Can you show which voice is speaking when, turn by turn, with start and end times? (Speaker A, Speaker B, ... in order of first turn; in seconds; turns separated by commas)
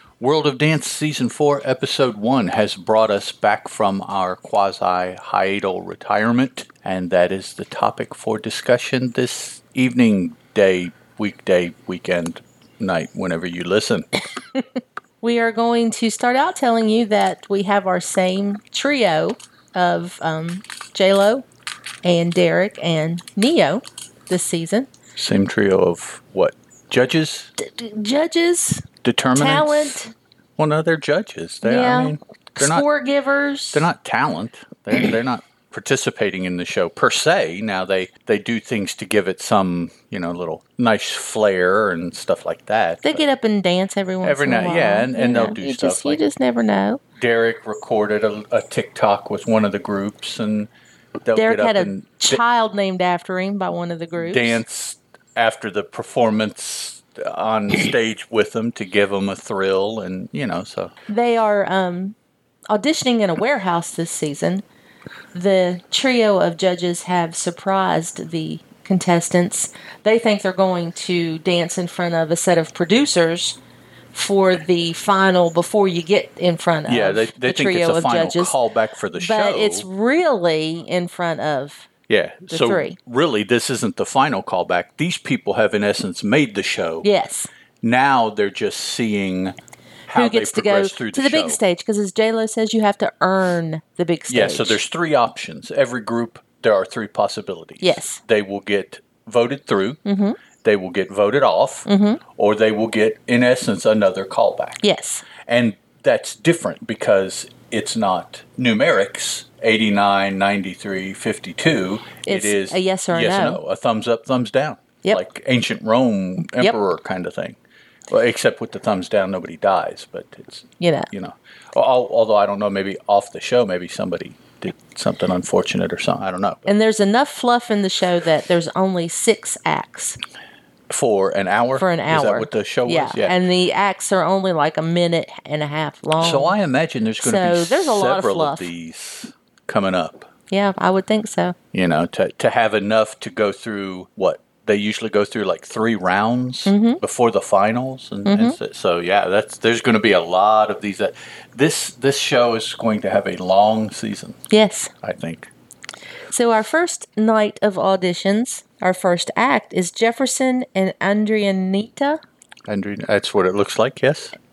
Speaker A: 0.2-14.1, Speaker B: 15.2-21.4, Speaker B: 22.0-24.9, Speaker A: 25.1-27.5, Speaker B: 27.6-30.1, Speaker A: 29.0-30.0, Speaker A: 30.6-32.9, Speaker B: 31.6-33.9, Speaker A: 33.7-43.2, Speaker B: 43.0-47.0, Speaker A: 44.2-46.2, Speaker A: 47.2-50.7, Speaker A: 51.2-52.4, Speaker B: 51.4-54.6, Speaker A: 54.2-60.9, Speaker B: 61.1-62.1, Speaker B: 62.7-64.6, Speaker B: 65.3-73.6, Speaker B: 74.1-78.5, Speaker A: 76.9-79.9, Speaker B: 79.2-81.9, Speaker A: 82.1-87.1, Speaker B: 82.5-83.0, Speaker B: 87.0-87.5, Speaker A: 87.8-89.5, Speaker A: 90.1-91.6, Speaker B: 90.1-94.8, Speaker A: 94.3-100.0, Speaker B: 97.8-98.2, Speaker B: 100.0-100.4, Speaker A: 100.6-104.8, Speaker B: 101.9-102.2, Speaker B: 104.8-105.3, Speaker A: 105.5-117.6, Speaker B: 112.3-113.6, Speaker A: 118.1-126.7, Speaker B: 120.8-121.1, Speaker B: 126.7-130.2, Speaker A: 130.9-133.4, Speaker B: 131.8-136.6, Speaker A: 136.2-140.3, Speaker B: 137.2-138.7, Speaker B: 140.5-141.6, Speaker A: 141.7-154.4, Speaker B: 146.7-147.0, Speaker B: 148.3-148.6, Speaker B: 154.5-154.9, Speaker A: 155.0-155.5, Speaker B: 156.3-162.2, Speaker A: 162.7-164.4